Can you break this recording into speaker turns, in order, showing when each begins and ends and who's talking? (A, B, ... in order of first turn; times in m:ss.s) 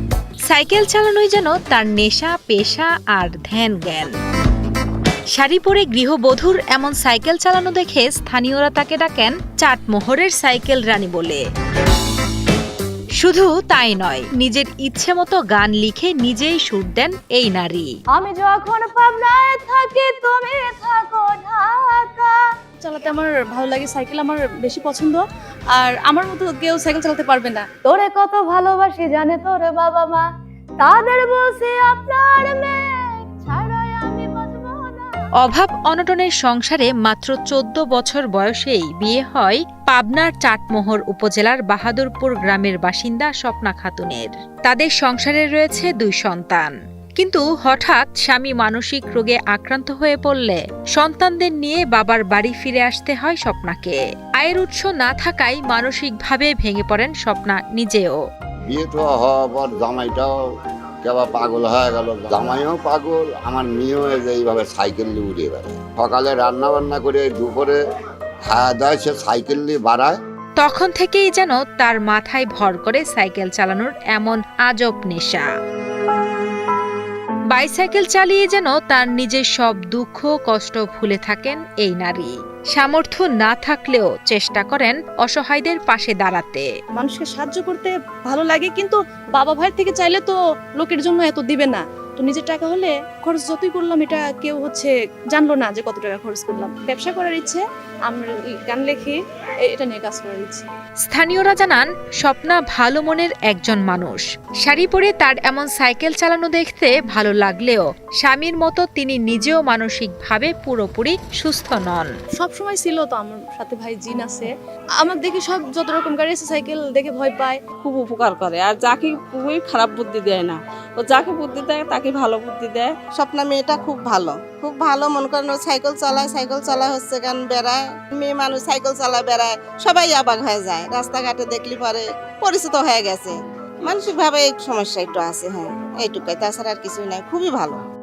0:00.5-0:04.1 A
0:05.3-0:11.4 A
0:13.2-0:17.9 A
0:18.2-0:22.3 B
0:18.7-0:19.1 C
0:22.8-0:25.2 C
0:25.8-0:29.6 C
0:28.5-0:30.1 B
0:30.9-0:31.3 C
0:30.9-0:32.6 B
0:33.5-0:34.8 C
0:35.4-0:58.2 A
0:58.7-1:00.3 D
1:01.0-1:07.8 D
1:08.4-1:10.2 D
1:10.6-1:15.5 A
1:17.5-1:26.7 A
1:27.0-1:40.7 C
1:41.1-1:52.1 A
1:52.4-1:54.5 C
1:55.0-1:57.6 C
1:57.8-2:02.9 E
2:03.2-2:17.8 F